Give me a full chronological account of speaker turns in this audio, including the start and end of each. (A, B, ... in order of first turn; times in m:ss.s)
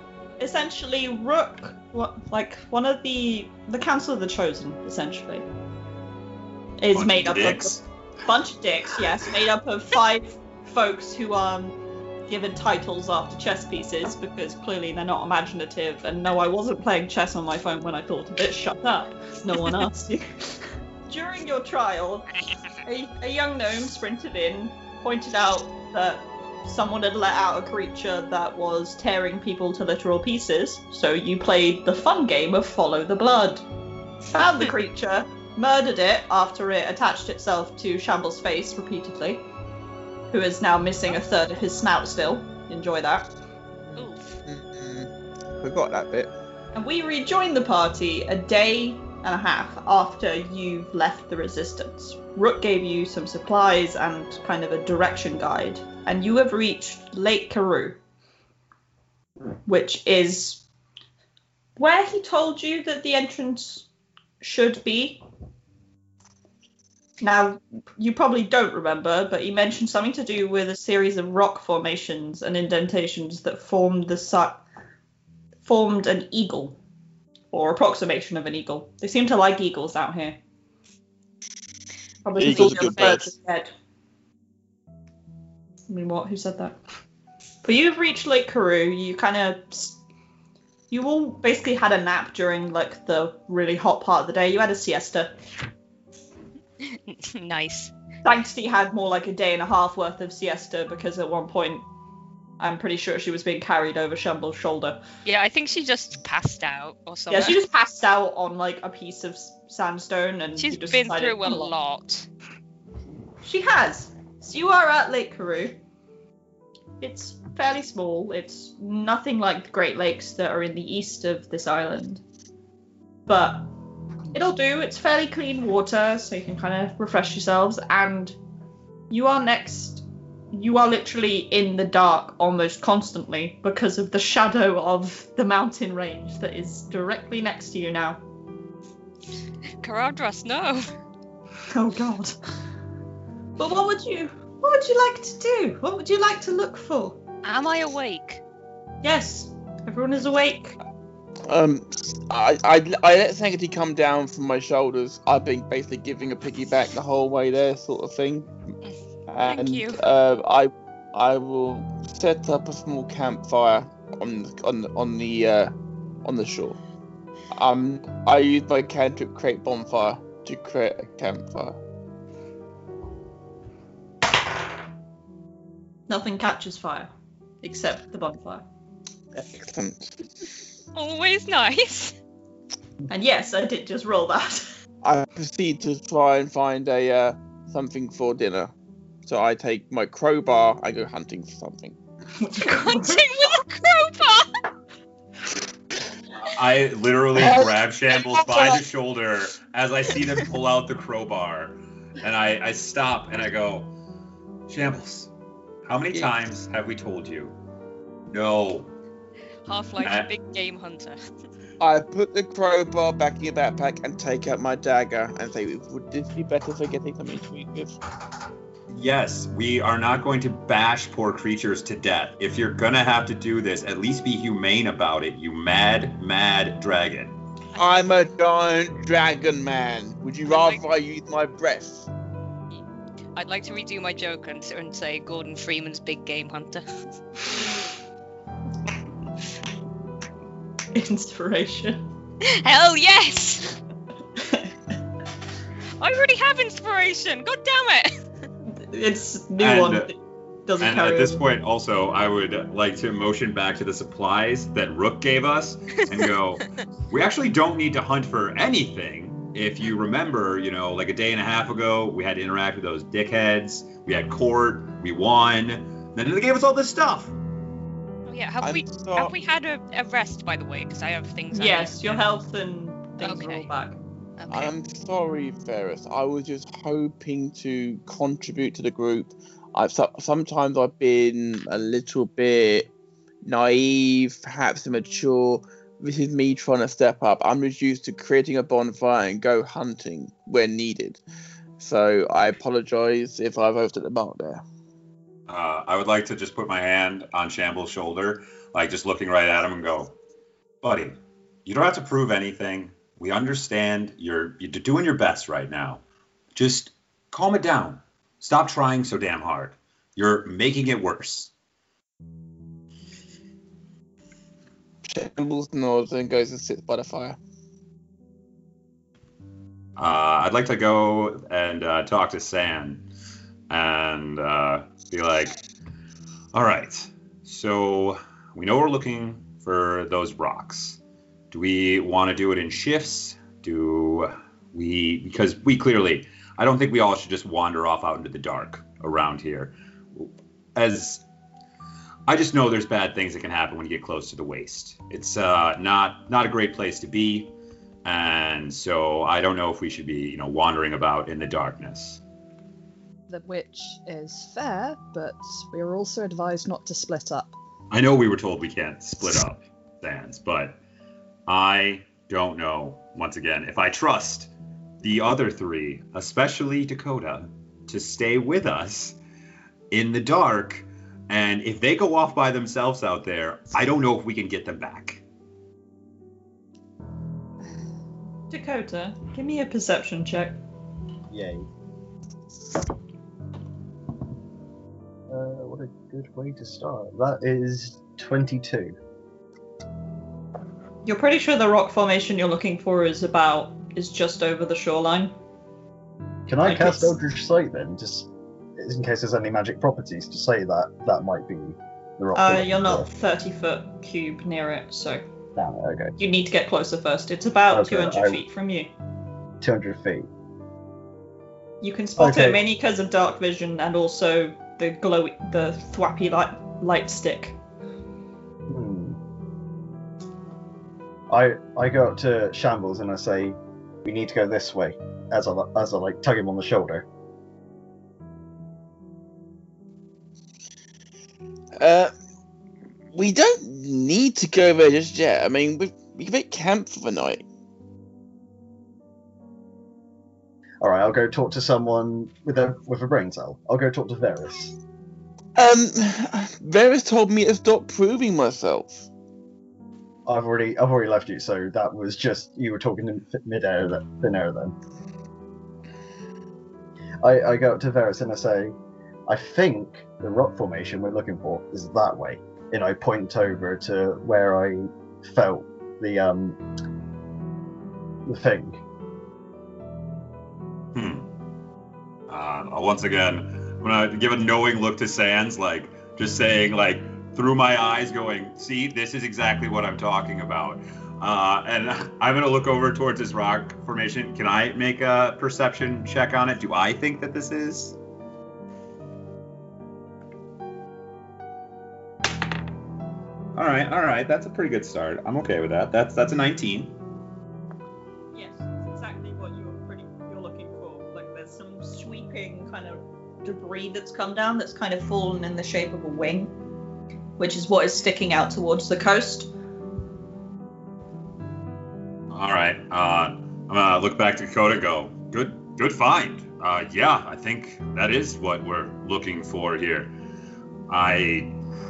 0:00.4-0:05.4 A
0:06.8-0:11.8 A
0:06.9-0:07.8 B
0:12.3-0:22.3 A
0:22.8-0:33.6 A
0:34.3-0:39.4 A
0:40.3-0:43.3 A
0:43.9-0:46.3 C
0:43.9-0:44.3 D
0:46.7-0:58.0 A
0:59.6-1:00.6 A
1:01.8-1:03.8 A
1:04.4-1:05.2 A
1:07.2-1:14.6 A
1:15.6-1:16.8 A
1:17.5-1:20.4 A
1:22.2-1:23.7 A
1:22.4-1:23.3 C
1:22.5-1:23.2 D
1:25.9-1:26.8 A
1:27.6-1:30.0 A
1:30.9-1:35.3 A
1:36.8-1:37.9 D
1:38.2-1:41.8 A
1:42.6-1:45.0 A
1:45.2-1:47.6 D
1:47.3-1:51.7 A
1:50.6-1:52.3 D
1:53.4-1:55.8 A
1:57.0-2:02.2 A
2:03.2-2:03.7 A
2:04.3-2:08.4 A
2:09.1-2:18.2 A
2:19.8-2:20.9 D
2:21.7-2:22.4 A
2:23.6-2:27.2 A
2:27.4-2:28.4 D
2:29.0-2:30.8 A
2:31.5-2:38.5 C
2:38.8-2:40.0 D
2:39.3-2:45.7 C
2:46.2-2:46.8 C
2:47.5-2:51.8 C
2:56.1-2:58.6 A
2:59.3-3:00.2 C
3:00.9-3:02.2 D
3:03.1-3:04.7 A
3:05.0-3:08.7 C
3:09.2-3:12.0 C
3:12.4-3:13.2 A
3:12.6-3:14.6 D
3:16.5-3:23.9 B
3:17.3-3:18.8 C
3:24.7-3:25.3 B
3:25.8-3:27.6 B
3:28.3-3:28.9 B
3:29.6-3:31.2 D
3:30.0-3:30.3 B
3:31.8-3:38.0 C
3:38.9-3:47.4 B
3:47.8-3:52.1 C
3:50.5-3:50.8 D
3:53.4-3:56.8 D
4:00.9-4:02.0 A
4:02.4-4:03.8 D
4:04.4-4:04.7 A
4:06.0-4:08.1 D
4:08.7-4:11.4 A
4:09.6-4:10.1 B
4:10.8-4:27.3 B
4:28.2-4:32.3 D
4:28.6-4:29.3 C
4:31.5-4:34.0 A
4:33.2-4:33.7 D
4:34.4-4:34.8 D
4:34.5-4:42.9 C
4:43.4-4:51.2 C
4:51.8-4:54.6 C
4:55.5-5:00.2 B
5:00.8-5:06.0 B
5:06.5-5:11.5 B
5:15.0-5:17.4 C
5:20.0-5:23.0 B
5:23.7-5:25.5 B
5:26.5-5:31.0 B
5:31.5-5:41.2 B
5:42.3-5:47.5 B
5:48.0-5:52.2 B
5:53.3-5:57.5 E
5:57.9-6:00.8 B
6:01.5-6:04.5 B
6:05.0-6:09.2 B
6:09.9-6:15.2 B
6:18.5-6:20.6 A
6:21.3-6:21.7 F
6:25.3-6:29.0 F
6:31.0-6:35.4 A
6:36.5-6:43.1 F
6:36.6-6:37.1 A
6:42.3-6:45.2 A
6:45.5-6:46.2 F
6:46.2-6:48.9 A
6:47.7-6:48.4 F
6:49.6-6:50.3 F
6:51.8-6:57.6 A
6:52.2-6:52.6 F
6:58.7-6:59.2 F
7:01.3-7:07.0 F
7:11.8-7:12.1 C
7:13.1-7:17.4 C
7:20.8-7:24.8 F
7:25.6-7:29.1 C
7:30.2-7:34.7 F
7:37.2-7:38.7 F
7:39.3-7:46.6 F
7:48.2-7:48.8 F
7:50.9-7:51.3 B
7:52.3-8:08.0 B
8:13.5-8:16.9 B
8:18.3-8:26.5 A
8:27.4-8:29.5 A
8:32.3-8:40.1 B
8:40.9-8:41.5 B